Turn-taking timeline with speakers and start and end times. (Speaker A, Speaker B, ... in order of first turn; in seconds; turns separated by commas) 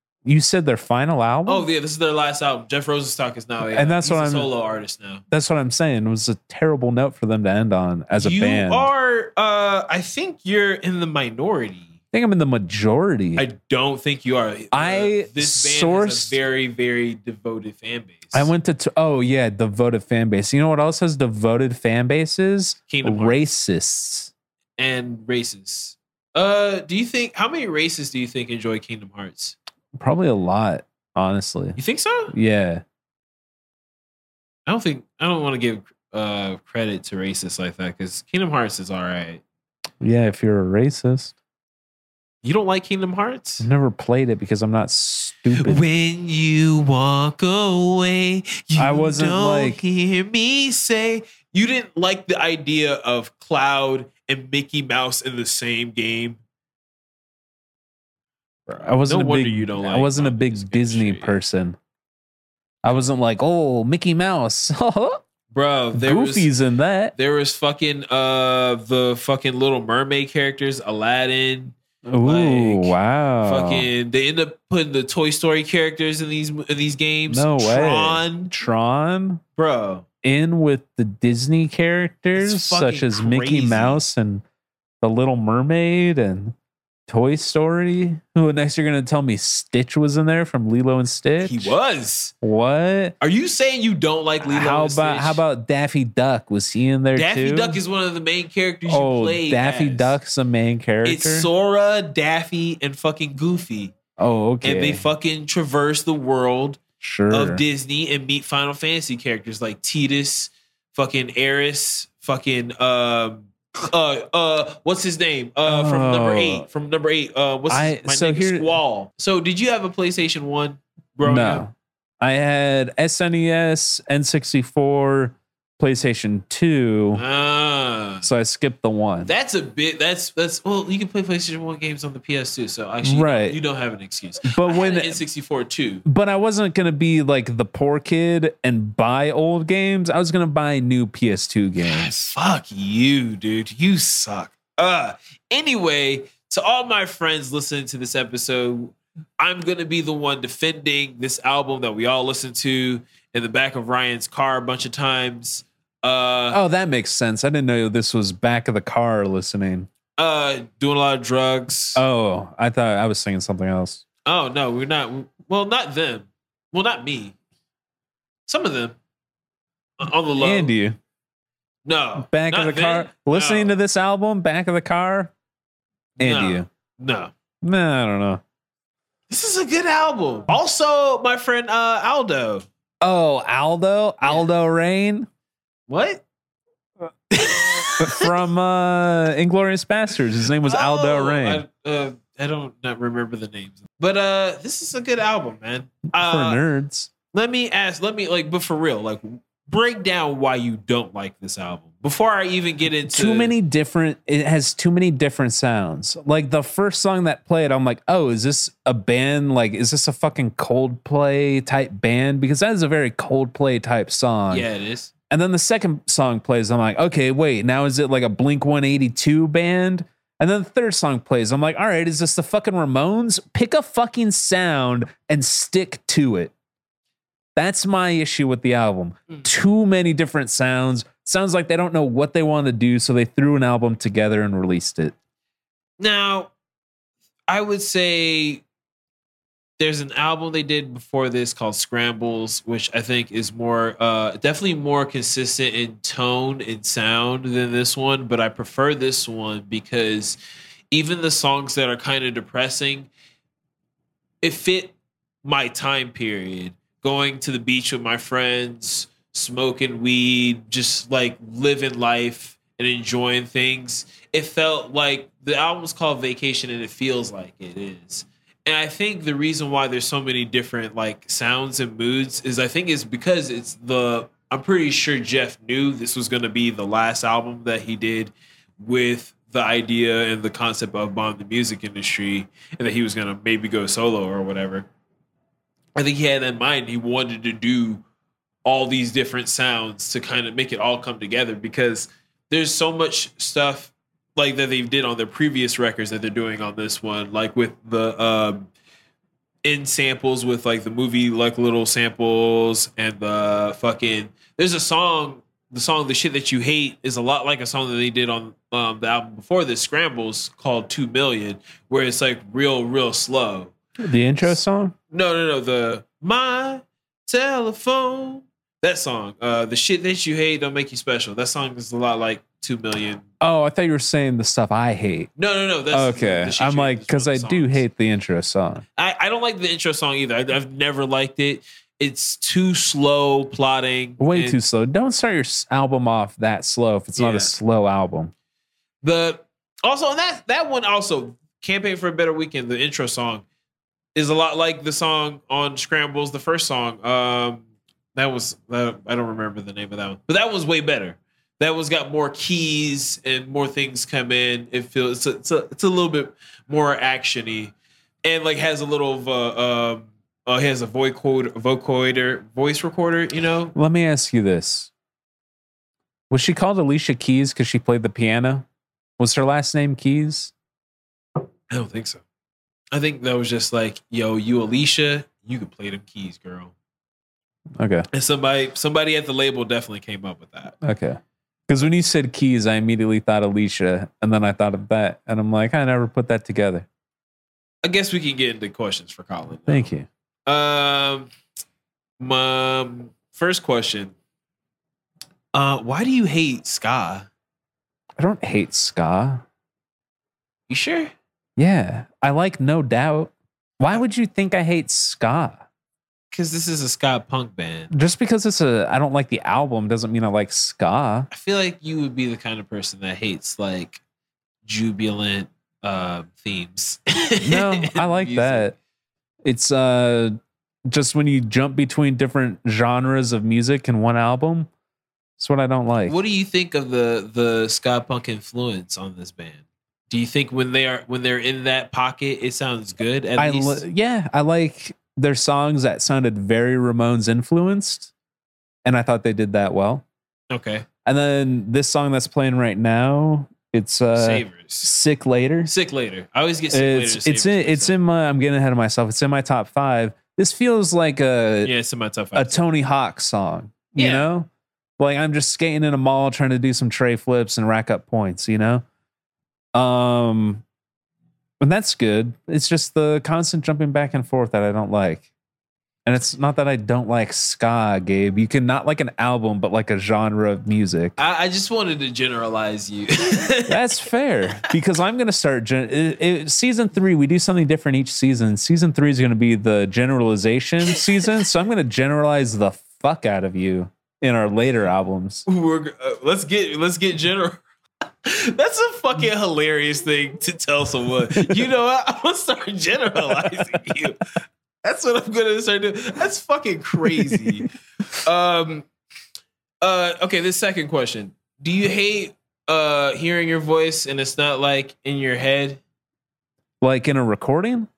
Speaker A: 0.2-1.7, Speaker B: 1.5-5.2, Speaker A: 3.7-4.5, Speaker A: 5.3-8.9, Speaker B: 8.1-11.9, Speaker A: 12.1-13.4, Speaker B: 13.4-18.5, Speaker A: 14.7-16.4, Speaker A: 18.3-24.3, Speaker B: 22.9-23.4, Speaker B: 24.8-29.6, Speaker A: 30.0-31.8, Speaker B: 31.8-32.3, Speaker A: 32.3-32.8, Speaker B: 34.7-39.4, Speaker A: 40.0-41.3, Speaker B: 42.4-43.7, Speaker A: 43.6-45.8, Speaker B: 45.6-56.4, Speaker A: 48.8-49.8, Speaker A: 58.7-61.8, Speaker B: 58.7-61.4, Speaker A: 62.8-65.2, Speaker B: 65.5-66.5, Speaker A: 65.9-67.1, Speaker B: 67.2-78.5, Speaker A: 72.0-73.9, Speaker A: 77.3-79.4, Speaker B: 79.6-80.0, Speaker A: 80.2-84.4, Speaker B: 82.4-84.0, Speaker A: 85.0-86.5, Speaker A: 87.1-91.8, Speaker B: 91.4-92.3, Speaker A: 92.4-93.2, Speaker B: 93.2-95.4, Speaker A: 94.5-97.8, Speaker B: 97.2-100.2, Speaker A: 98.9-101.5, Speaker B: 101.0-104.0, Speaker A: 104.2-105.0, Speaker B: 104.6-121.7, Speaker A: 107.0-107.6, Speaker A: 115.7-116.7, Speaker A: 117.7-118.7, Speaker A: 121.2-127.2, Speaker B: 127.1-128.3, Speaker A: 128.2-129.3, Speaker B: 129.2-136.0, Speaker A: 133.0-133.6, Speaker A: 134.4-135.2, Speaker A: 136.1-142.3, Speaker B: 141.8-156.6, Speaker A: 156.5-159.9, Speaker B: 160.2-162.0, Speaker A: 162.0-164.0, Speaker B: 164.2-167.4, Speaker B: 168.5-169.0, Speaker B: 170.0-170.7, Speaker A: 170.4-171.0, Speaker B: 171.9-173.8, Speaker A: 172.2-175.3, Speaker B: 176.2-177.3, Speaker A: 176.2-176.7, Speaker A: 177.6-178.4, Speaker B: 179.3-182.7, Speaker A: 183.0-185.3, Speaker B: 185.9-186.2, Speaker B: 187.3-188.3, Speaker A: 188.0-191.6, Speaker B: 190.6-196.6, Speaker A: 196.2-197.1, Speaker B: 197.3-203.5, Speaker A: 203.1-214.7, Speaker B: 214.5-215.1, Speaker A: 215.3-226.5, Speaker A: 227.6-235.1, Speaker B: 236.0-236.5, Speaker B: 237.5-238.6, Speaker B: 239.8-250.4, Speaker B: 250.9-253.1, Speaker B: 254.4-284.9, Speaker B: 286.0-288.0, Speaker B: 288.6-298.7, Speaker B: 299.6-313.8, Speaker A: 314.0-314.9, Speaker B: 315.1-323.2, Speaker A: 323.4-325.3, Speaker B: 325.4-327.9, Speaker A: 325.9-328.8, Speaker B: 329.0-334.6, Speaker A: 334.2-338.3, Speaker B: 337.1-337.6, Speaker B: 339.0-343.4, Speaker B: 344.1-347.6, Speaker B: 348.1-363.8, Speaker A: 363.8-364.9, Speaker A: 366.3-368.7, Speaker A: 369.2-370.5, Speaker B: 371.7-372.2, Speaker B: 372.9-376.7, Speaker A: 377.8-378.1, Speaker B: 378.1-380.8, Speaker A: 380.8-386.9, Speaker B: 387.8-389.9, Speaker A: 389.7-390.1, Speaker B: 390.5-391.3, Speaker B: 392.2-394.1, Speaker B: 395.5-397.3, Speaker A: 398.2-399.4, Speaker B: 400.7-401.1, Speaker A: 401.6-405.6, Speaker B: 406.3-407.9, Speaker A: 407.9-411.3, Speaker B: 411.3-414.0, Speaker B: 414.6-418.7, Speaker A: 417.4-418.7, Speaker A: 419.4-420.4, Speaker A: 420.9-424.7, Speaker A: 425.4-426.2, Speaker B: 426.1-433.8, Speaker A: 433.4-438.1, Speaker A: 438.9-440.0, Speaker B: 440.5-440.9, Speaker A: 441.1-445.7, Speaker B: 444.2-444.9, Speaker B: 445.7-447.9, Speaker A: 446.7-451.7, Speaker B: 451.6-452.6, Speaker A: 452.4-458.8, Speaker B: 454.0-454.3, Speaker A: 459.8-460.6, Speaker A: 461.6-465.3, Speaker A: 466.1-471.2, Speaker B: 471.2-473.8, Speaker A: 473.7-485.4, Speaker B: 485.5-487.6, Speaker B: 488.2-494.2, Speaker B: 494.8-498.9, Speaker A: 497.1-497.4, Speaker B: 499.8-505.8, Speaker A: 506.8-507.9